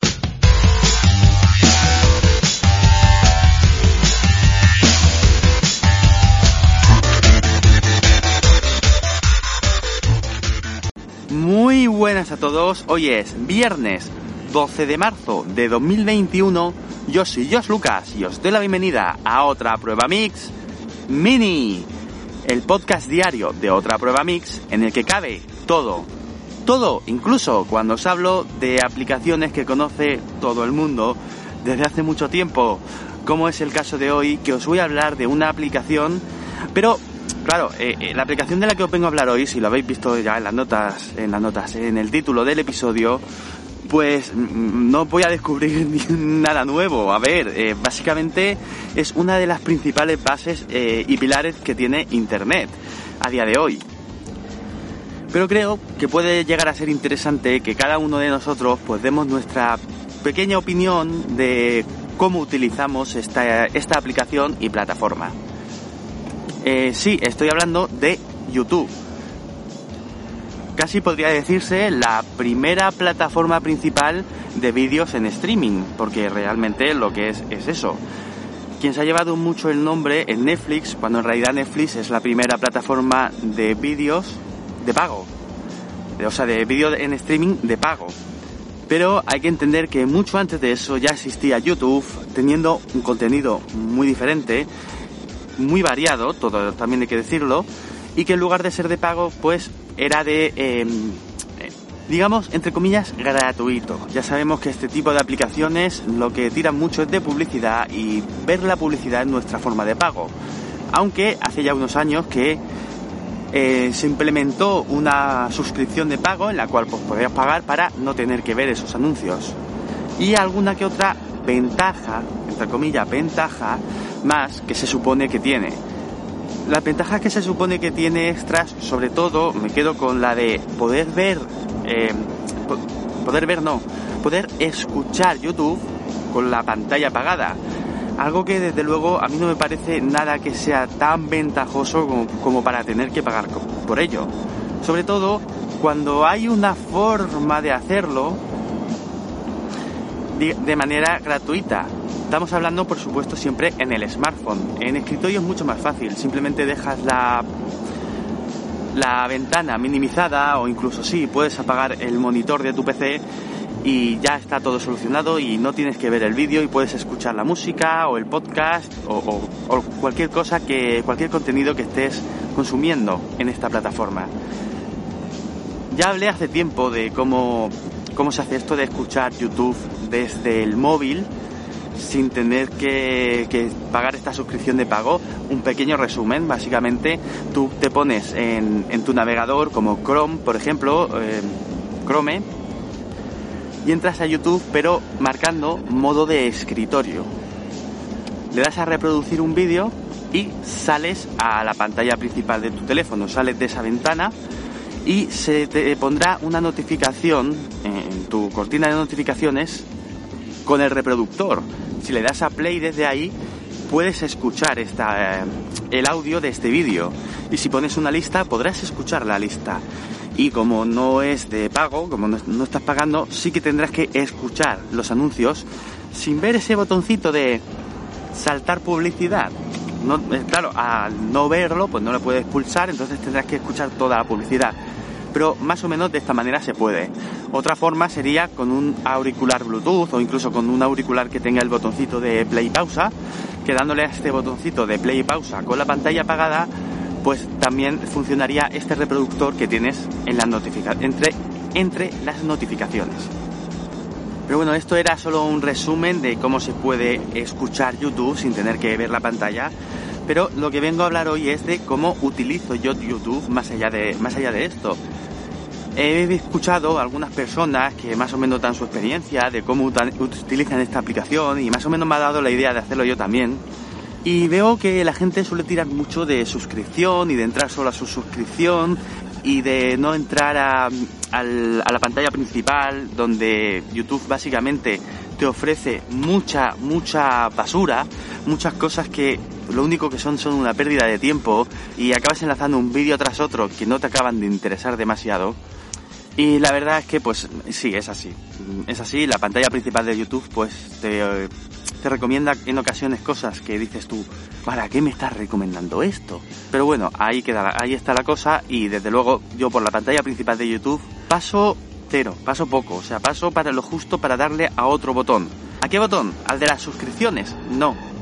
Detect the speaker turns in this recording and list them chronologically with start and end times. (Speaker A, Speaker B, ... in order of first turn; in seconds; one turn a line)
Speaker A: 11.3-20.5
Speaker A: 21.1-21.9
Speaker A: 22.4-26.1
Speaker A: 26.6-43.2
Speaker A: 43.8-53.8
Speaker A: 55.3-65.4
Speaker A: 66.6-68.9
Speaker A: 70.8-78.0
Speaker A: 78.8-85.3
Speaker A: 86.2-88.2
Speaker A: 88.9-94.7
Speaker A: 95.5-110.3
Speaker A: 110.9-112.6
Speaker A: 113.5-119.6
Speaker A: 120.2-125.8
Speaker A: 126.6-137.6
Speaker A: 138.2-148.4
Speaker A: 150.3-157.5
Speaker A: 158.9-163.2
Speaker A: 163.8-174.3
Speaker A: 175.9-181.3
Speaker A: 181.9-192.5
Speaker A: 193.8-197.3
Speaker A: 198.5-204.3
Speaker A: 205.0-209.9
Speaker A: 210.6-219.8
Speaker A: 220.3-227.6
Speaker A: 228.3-234.8
Speaker A: 235.3-246.7
Speaker A: 247.2-253.3
Speaker A: 254.4-259.7
Speaker A: 260.2-265.0
Speaker A: 265.9-273.6
Speaker A: 274.2-295.6
Speaker A: 296.4-318.0